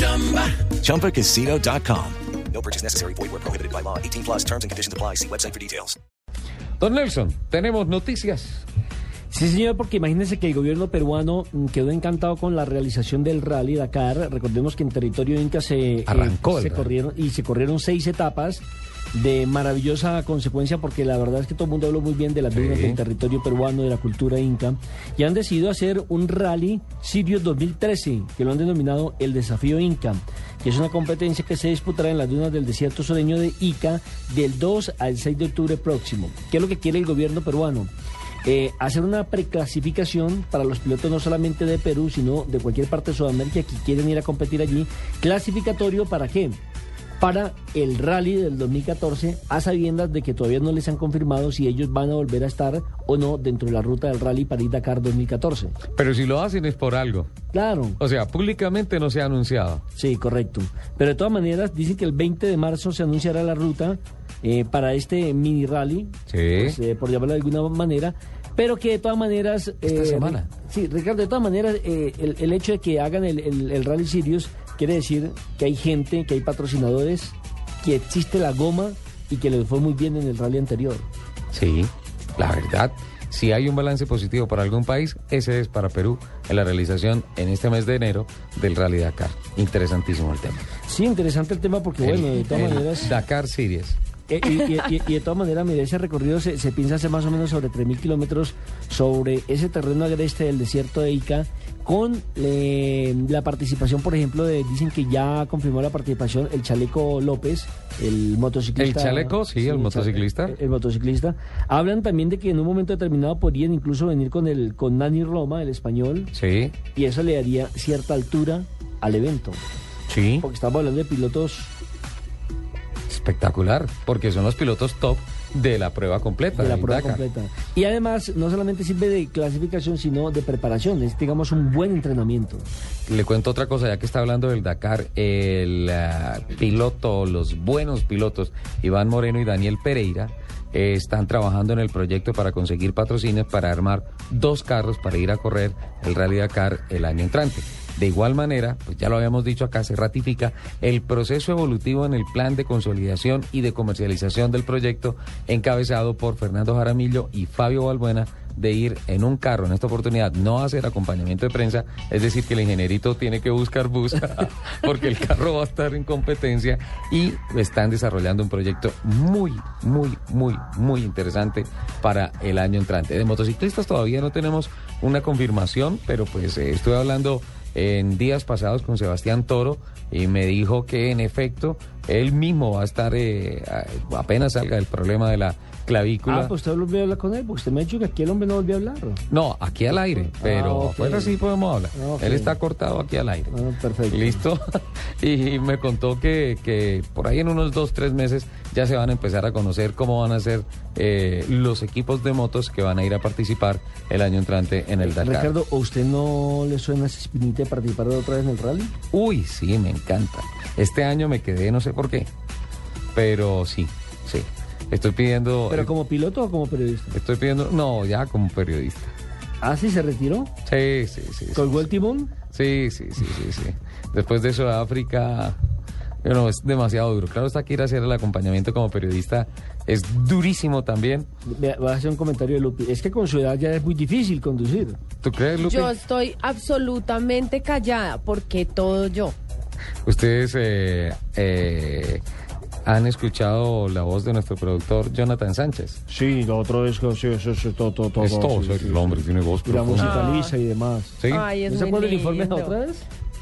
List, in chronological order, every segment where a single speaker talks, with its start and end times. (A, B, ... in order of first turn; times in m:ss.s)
0:00.4-0:06.0 A
0:06.8-0:08.6 B
0:09.3-0:37.9 C
0:16.1-0:16.9 B
0:22.5-0:23.0 B
0:38.4-0:46.6 C
0:47.2-0:55.8 C
0:56.0-0:57.3 B
0:57.5-0:58.0 C
0:58.0-0:59.8 B
1:00.0-1:21.1 C
1:06.3-1:06.8 B
1:09.8-1:10.5 B
1:21.5-1:30.6 B
1:30.8-1:33.1 C
1:32.0-1:34.0 B
1:34.3-1:56.3 C
1:48.8-1:50.6 B
1:56.3-1:56.8 B
1:56.9-1:59.6 C
2:00.1-2:00.4 B
2:00.4-2:01.7 C
2:03.1-2:07.2 B
2:06.5-2:12.7 C
2:13.1-3:06.5 B
3:06.2-3:09.2 C
3:09.3-3:13.5 B
3:10.2-3:11.4 C
3:11.9-3:12.6 C
3:13.5-3:14.4 C
3:14.1-3:25.5 B
3:25.0-3:28.9 C
3:29.1-3:32.3 B
3:33.1-3:35.9 B
3:35.7-3:37.2 C
3:37.1-3:39.1 B
3:39.6-3:40.5 C
3:40.6-3:41.9 B
3:41.5-3:42.3 C
3:42.5-3:45.6 B
3:46.2-3:51.3 B
3:51.5-3:55.0 C
3:55.2-3:56.0 B
3:55.6-3:59.3 D
4:00.0-4:02.2 B
4:02.8-4:06.0 B
4:06.1-4:13.0 C
4:08.2-4:10.2 B
4:10.0-4:10.5 D
4:11.2-4:11.5 B
4:11.3-4:12.8 D